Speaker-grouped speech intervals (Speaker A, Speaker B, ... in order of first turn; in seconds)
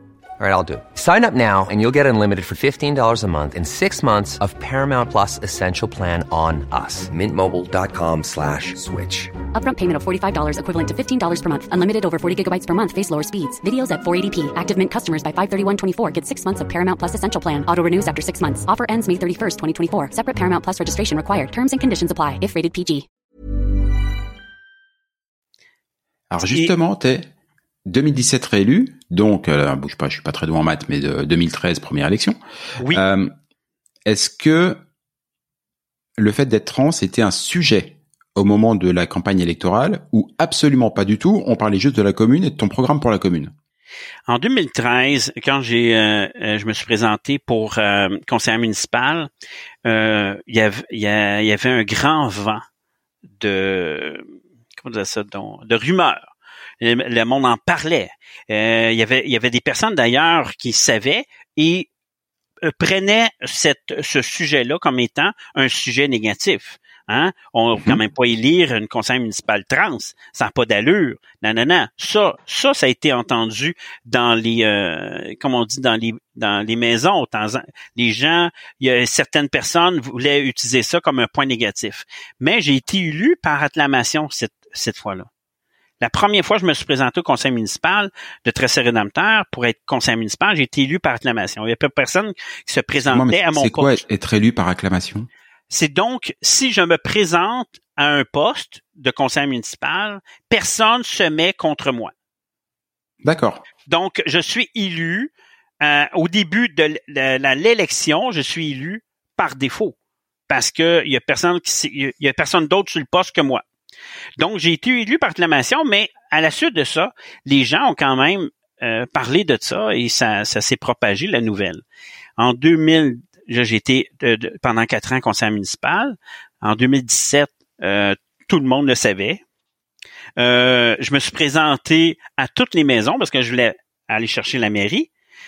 Speaker A: 0.4-9.3
Speaker B: 9.6-23.1
Speaker C: 26.3-27.3, 27.9-33.3, 34.1-34.8, 36.2-43.5, 93.1-95.3, 103.2-103.6
Speaker D: 44.3-49.3, 49.9-52.6, 53.4-54.2, 54.8-56.2, 56.8-61.9, 62.6-85.3, 86.0-94.0, 95.7-102.1, 103.9-110.0, 110.5-113.6, 114.4-121.8, 122.4-129.4, 130.4-135.1